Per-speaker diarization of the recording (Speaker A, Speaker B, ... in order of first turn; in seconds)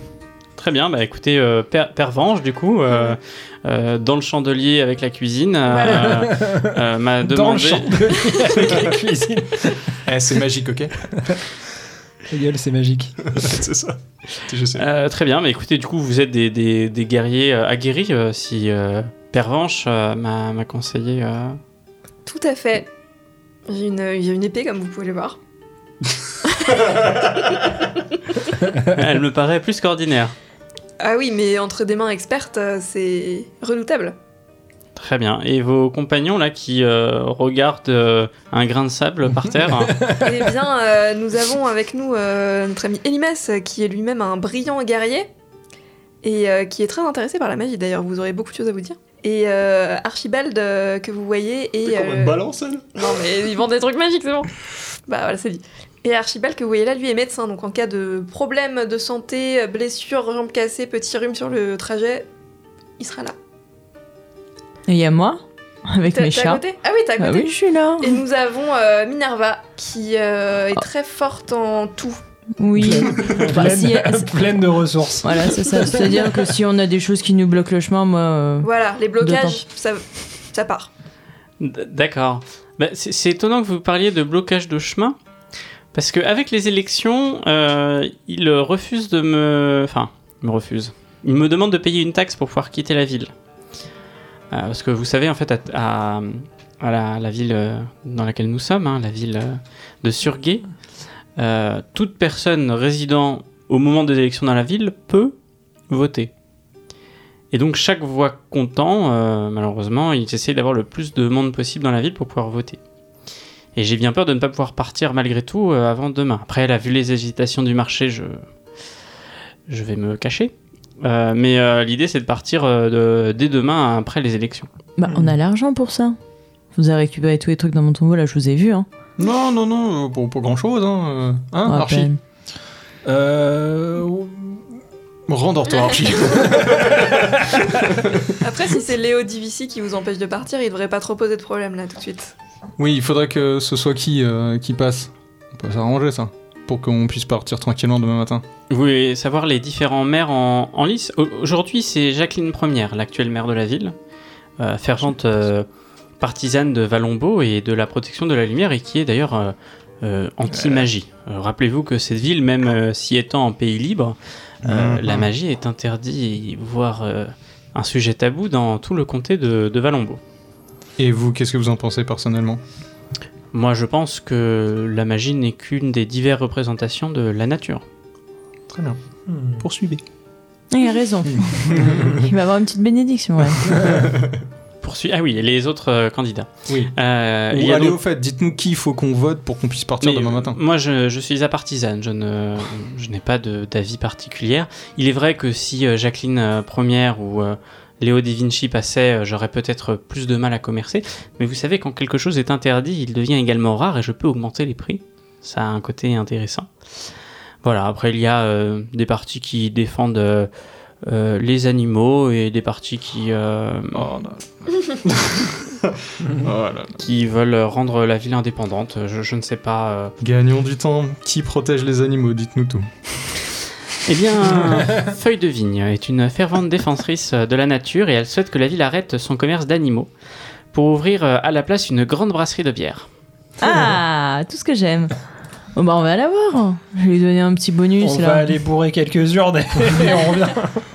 Speaker A: 0.6-8.8, 14.7-21.6, 28.8-30.4, 35.0-40.1, 81.6-85.2, 85.9-93.3, 94.5-100.7, 101.4-105.3, 105.9-106.3, 107.5-112.8, 113.8-118.4, 119.7-124.7, 148.7-153.9, 154.6-155.7, 156.2-170.2, 173.5-177.8, 184.8-188.0, 190.0-206.7, 207.6-210.5, 211.0-214.0, 217.0-220.1, 224.1-230.1, 230.7-233.1
Speaker B: 2.9-3.2, 5.7-6.2, 22.3-22.9, 23.7-25.4, 26.4-27.6, 31.0-34.1, 40.2-45.3, 46.2-52.4, 53.0-54.5, 55.1-62.3, 63.0-63.4, 66.1-72.2, 78.6-80.9, 135.7-136.5, 138.4-142.3
Speaker C: 5.8-9.9, 11.2-11.4, 12.3-13.3, 39.8-40.2, 72.8-76.4, 133.1-134.6, 179.3-179.6, 238.0-240.9
Speaker D: 10.1-11.1, 13.3-14.9, 51.9-53.2, 129.2-132.1, 135.3-138.4, 142.8-148.4, 160.5-160.9, 164.6-165.3, 171.0-172.6, 178.7-179.0, 179.5-180.0, 181.3-182.1, 183.7-184.4, 186.7-186.9, 187.5-190.6, 213.9-217.0, 220.2-222.9
Speaker E: 64.9-66.6, 67.2-68.2, 72.6-74.4, 75.2-79.6, 125.0-126.2, 126.8-128.9, 131.7-132.2, 180.7-183.7, 233.6-235.1, 235.8-238.6